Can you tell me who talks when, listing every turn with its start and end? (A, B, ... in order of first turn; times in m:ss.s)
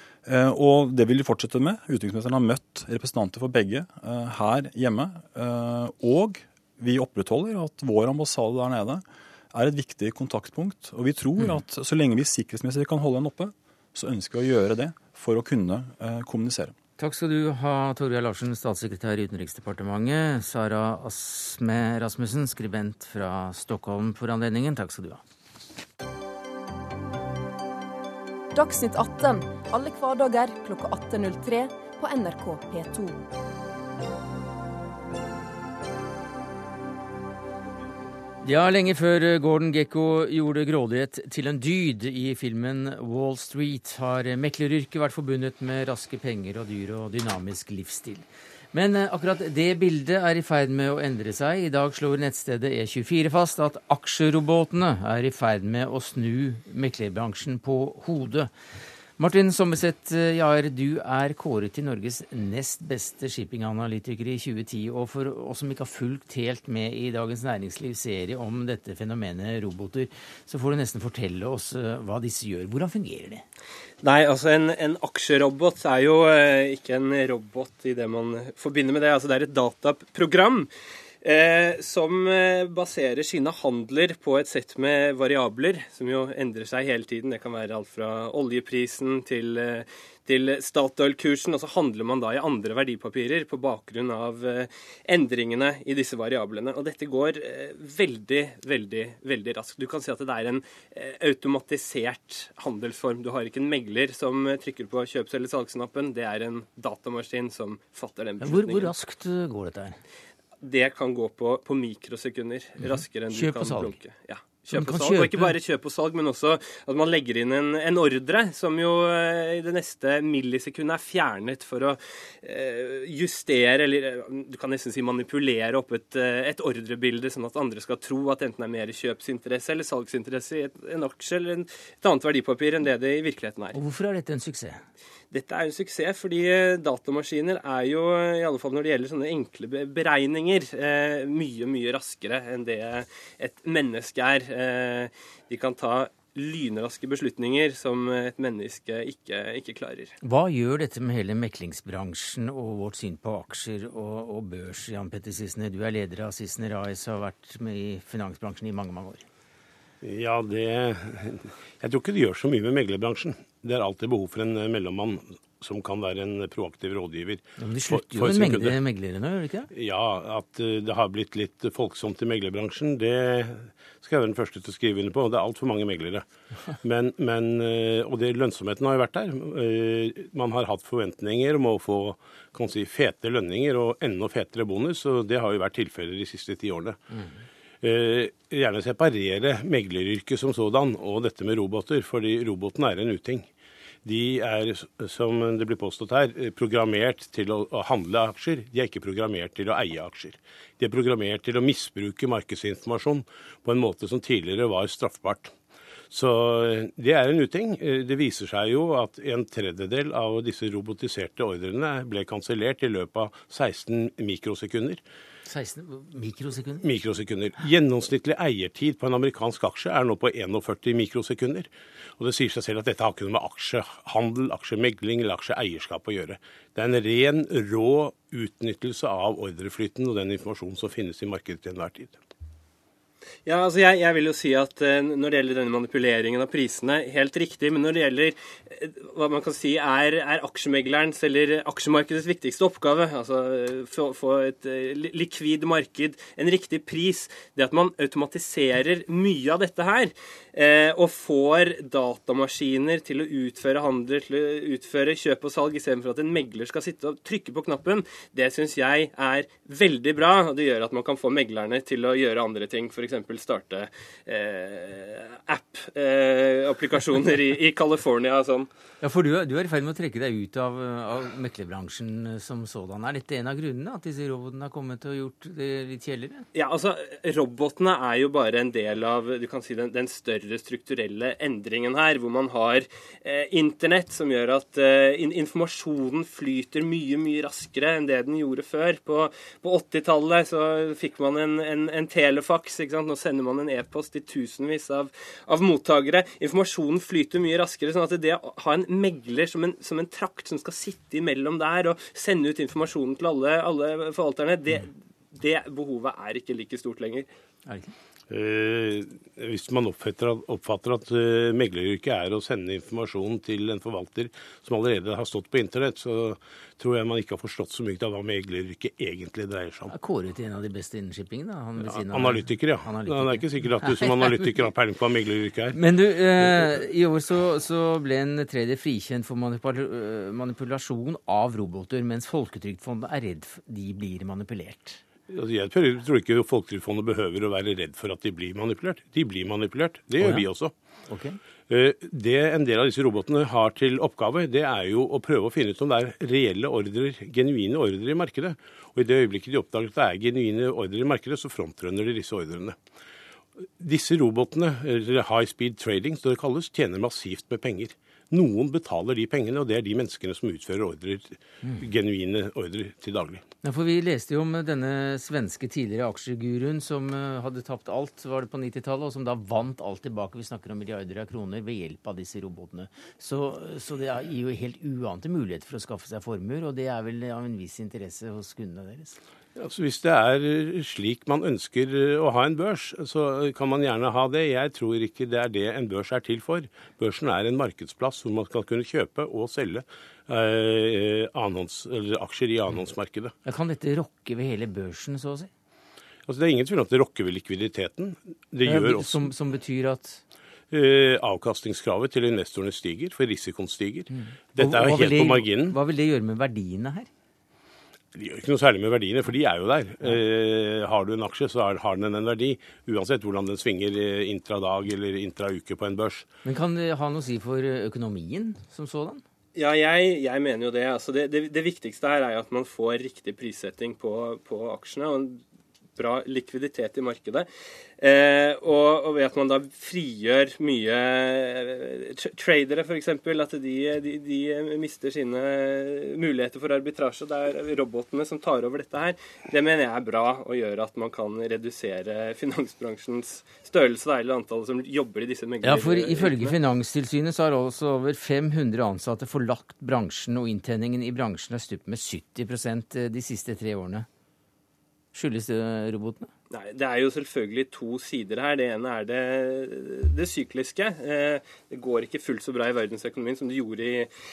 0:00.2-0:16.7 A
0:17.0-0:25.2 B
0:28.5-0:33.2 C
0:38.4-0:58.5 B
0:59.2-1:13.4 B
1:14.0-1:20.7 D
1:21.2-1:48.9 D
1:48.4-1:50.0 B
1:50.6-2:13.8 D
1:52.9-1:54.0 B
1:54.7-1:55.6 B
2:13.7-2:14.8 B
2:15.3-2:30.1 D
2:30.2-2:39.2 B
2:40.0-2:48.8 E
2:47.6-2:49.7 B
2:49.7-3:07.0 E
3:07.8-3:13.5 E
3:14.0-3:25.5 E
3:26.1-3:35.0 E
3:35.4-3:36.8 B
3:36.8-3:52.2 E
3:53.4-4:28.7 D
4:29.0-4:36.5 B
4:36.5-5:07.3 D
5:07.6-5:07.9 B
5:08.3-5:19.9 E
5:19.9-5:24.5 B
5:21.8-5:25.8 E
5:25.7-5:35.0 B
5:26.4-5:26.7 E
5:35.3-5:40.7 E
5:40.2-5:40.5 B
5:41.1-5:41.4 B
5:41.7-5:52.8 E
5:53.8-6:03.4 E
6:03.6-6:19.2 B
6:19.6-6:33.3 E
6:33.4-6:35.5 B
6:36.2-6:39.3 E
6:38.6-6:40.2 B
6:40.7-6:45.8 E
6:44.1-6:47.1 B
6:48.1-6:56.3 E
6:56.4-6:59.2 B
6:59.5-7:05.4 D
7:06.0-7:07.5 D
7:08.0-7:26.6 D
7:25.6-7:34.1 B
7:35.1-7:36.3 B
7:36.5-7:44.1 D